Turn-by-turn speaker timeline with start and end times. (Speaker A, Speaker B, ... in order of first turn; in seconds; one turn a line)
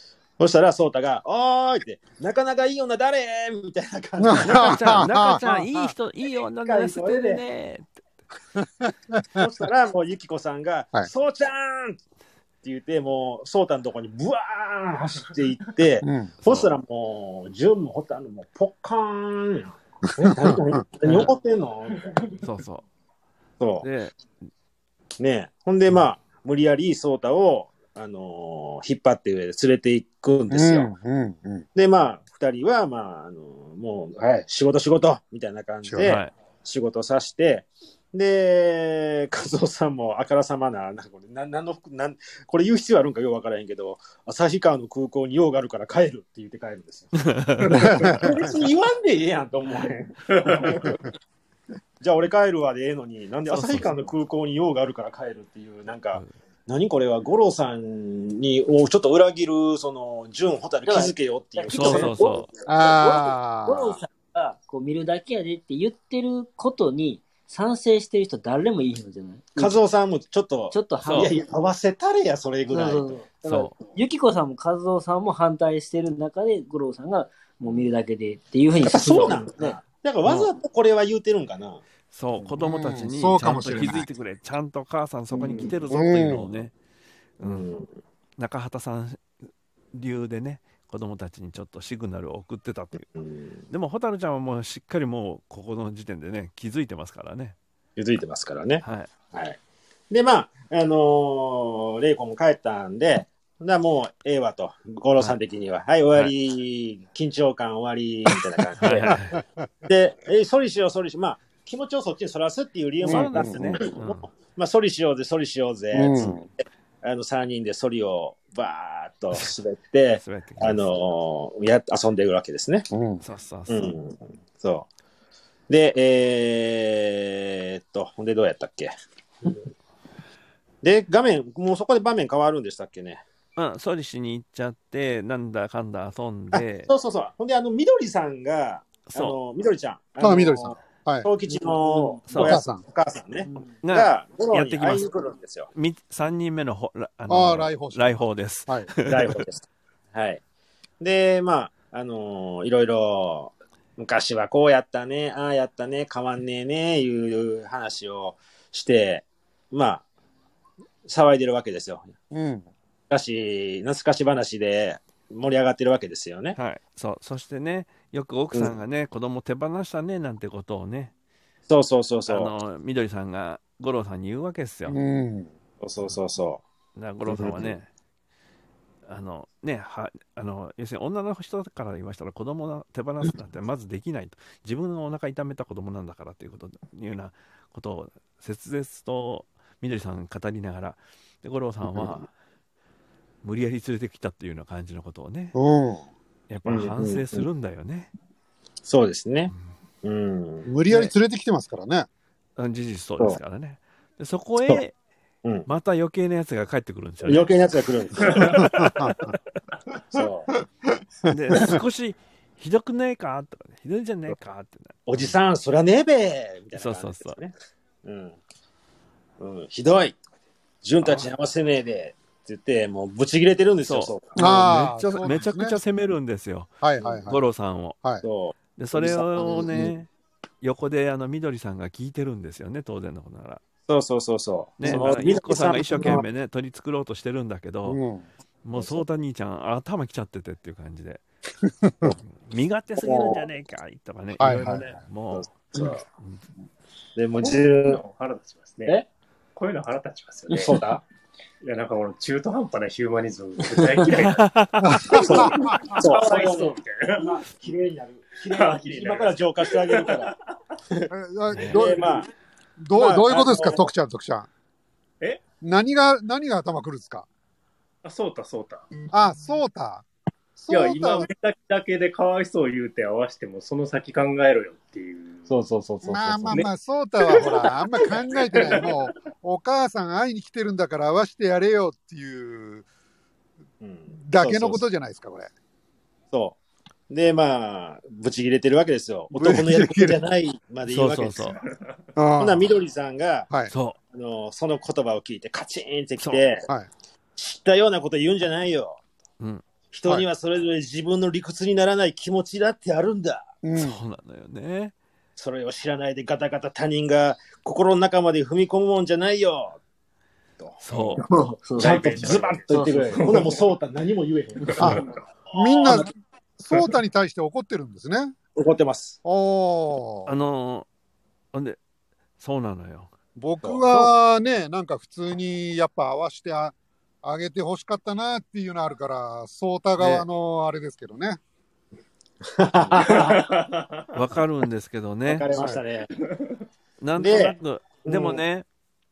Speaker A: 0.4-5.1
Speaker B: 4.2-5.9
Speaker C: 4.4-7.9
Speaker A: 6.6-7.4
Speaker B: 8.6-9.4
Speaker A: 9.3-12.0
Speaker A: 12.6-22.2
Speaker B: 16.0-16.3
Speaker C: 16.4-16.7
Speaker B: 20.2-20.7
Speaker C: 22.4-22.8
Speaker A: 23.6-23.9
Speaker C: 23.8-24.1
Speaker A: 25.2-30.9
Speaker B: 30.5-31.6
Speaker A: 31.7-51.0
Speaker B: 35.8-36.2
Speaker C: 36.0-36.3
Speaker C: 47.2-47.8
Speaker B: 47.7-48.5
Speaker D: 50.3-50.9
Speaker A: 52.0-62.4
Speaker C: 53.5-54.0
Speaker E: 60.8-69.8
Speaker C: 61.7-62.5
Speaker B: 62.7-64.0
Speaker A: 69.6-73.2
Speaker E: 70.7-71.3
Speaker C: 71.0-71.3
Speaker E: 72.7-79.7
Speaker C: 73.5-73.7
Speaker A: 78.8-81.8
Speaker C: 80.2-80.5
Speaker C: 82.1-86.7
Speaker B: 82.4-84.1
Speaker A: 85.4-85.8
Speaker B: 85.9-86.5
Speaker C: 87.4-87.7
Speaker A: 87.4-87.9
Speaker C: 88.4-89.2
Speaker C: 89.9-93.1
Speaker C: 93.7-97.5
Speaker A: 98.0-99.6
Speaker C: 98.8-99.1
Speaker A: 100.1-109.2
Speaker C: 108.8-109.4
Speaker A: 109.8-122.9
Speaker C: 113.0-114.3
Speaker B: 113.1-113.8
Speaker B: 115.9-116.4
Speaker C: 120.2-121.0
Speaker B: 122.9-123.2
Speaker C: 123.2-123.9
Speaker A: 123.7-124.9
Speaker A: 125.7-128.9
Speaker A: 130.8-133.2
Speaker C: 133.6-136.9
Speaker A: 136.5-145.7
Speaker C: 139.1-139.3
Speaker B: 140.2-141.3
Speaker C: 142.3-142.6
Speaker B: 142.3-142.8
Speaker C: 143.8-145.0
Speaker C: 145.7-149.4
Speaker B: 147.3-148.9
Speaker A: 149.0-150.4
Speaker A: 151.0-160.0
Speaker A: 161.0-162.1
Speaker B: 162.3-162.7
Speaker A: 163.1-166.6
Speaker C: 166.6-171.1
Speaker A: 171.7-172.5
Speaker C: 172.3-175.0
Speaker B: 174.9-175.5
Speaker A: 175.8-176.6
Speaker C: 176.9-177.9
Speaker A: 177.3-177.7
Speaker C: 179.1-192.3
Speaker C: 193.4-195.6
Speaker B: 195.5-196.0
Speaker C: 196.5-198.1
Speaker A: 196.7-197.4
Speaker A: 198.8-199.5
Speaker A: 200.0-200.7
Speaker B: 200.7-202.1
Speaker C: 202.6-204.9
Speaker C: 205.7-207.5
Speaker A: 207.2-208.8
Speaker D: 208.2-208.5
Speaker C: 208.5-208.9
Speaker B: 208.6-209.3
Speaker A: 210.1-210.5
Speaker B: 211.3-211.8
Speaker C: 211.3-215.4
Speaker A: 215.1-217.5
Speaker C: 216.7-217.4
Speaker A: 218.0-218.4
Speaker A: 219.4-220.2
Speaker A: 220.8-224.7
Speaker C: 221.0-221.3
Speaker C: 223.8-228.0
Speaker B: 224.3-225.8
Speaker B: 226.8-227.4
Speaker A: 228.2-229.9
Speaker C: 228.8-230.1
Speaker C: 230.6-233.6
Speaker A: 233.9-236.2
Speaker C: 234.8-238.0
Speaker B: 237.8-238.3
Speaker C: 238.6-241.2
Speaker A: 238.8-239.0
Speaker B: 241.6-242.2
Speaker C: 242.0-246.4
Speaker B: 243.0-243.4
Speaker B: 244.4-244.9
Speaker A: 245.3-246.0
Speaker A: 247.2-248.0
Speaker D: 247.4-249.0
Speaker D: 249.5-250.8
Speaker A: 250.5-251.0
Speaker D: 251.6-254.4
Speaker C: 254.1-255.2
Speaker B: 254.8-255.9
Speaker D: 255.1-257.4
Speaker A: 255.1-260.3
Speaker D: 258.5-260.4
Speaker B: 261.1-262.2
Speaker C: 261.5-261.8
Speaker A: 261.6-262.3
Speaker B: 262.8-264.5
Speaker A: 262.9-263.9
Speaker B: 265.6-267.2
Speaker D: 268.0-268.9
Speaker B: 269.1-270.0
Speaker B: 270.6-271.3
Speaker D: 270.7-275.5
Speaker A: 275.5-276.7
Speaker B: 276.0-282.8
Speaker D: 277.2-279.1
Speaker A: 283.8-284.8
Speaker B: 284.2-285.5
Speaker A: 286.3-286.6
Speaker A: 287.1-291.6
Speaker B: 289.3-290.2
Speaker C: 290.9-291.6
Speaker D: 291.6-291.9
Speaker B: 292.1-292.7
Speaker A: 292.4-293.5
Speaker C: 293.7-294.0
Speaker A: 294.1-296.7
Speaker A: 297.4-299.0
Speaker C: 299.4-299.6
Speaker A: 299.9-303.5
Speaker B: 303.6-304.0
Speaker C: 303.7-304.9
Speaker A: 305.4-309.8
Speaker A: 310.6-311.2
Speaker C: 310.8-311.2
Speaker E: 311.2-312.1
Speaker D: 311.8-312.6
Speaker A: 311.8-315.0
Speaker E: 312.7-313.4
Speaker D: 314.7-315.0
Speaker B: 314.8-318.3
Speaker A: 318.5-319.2
Speaker B: 319.2-320.3
Speaker C: 320.2-320.9
Speaker C: 321.5-321.8
Speaker C: 322.4-323.1
Speaker B: 323.4-331.4
Speaker A: 323.6-324.1
Speaker C: 330.0-330.2
Speaker A: 332.5-333.4
Speaker D: 333.0-334.0
Speaker C: 334.1-335.5
Speaker A: 335.3-336.1
Speaker B: 335.5-335.8
Speaker C: 337.0-338.6
Speaker A: 337.2-338.4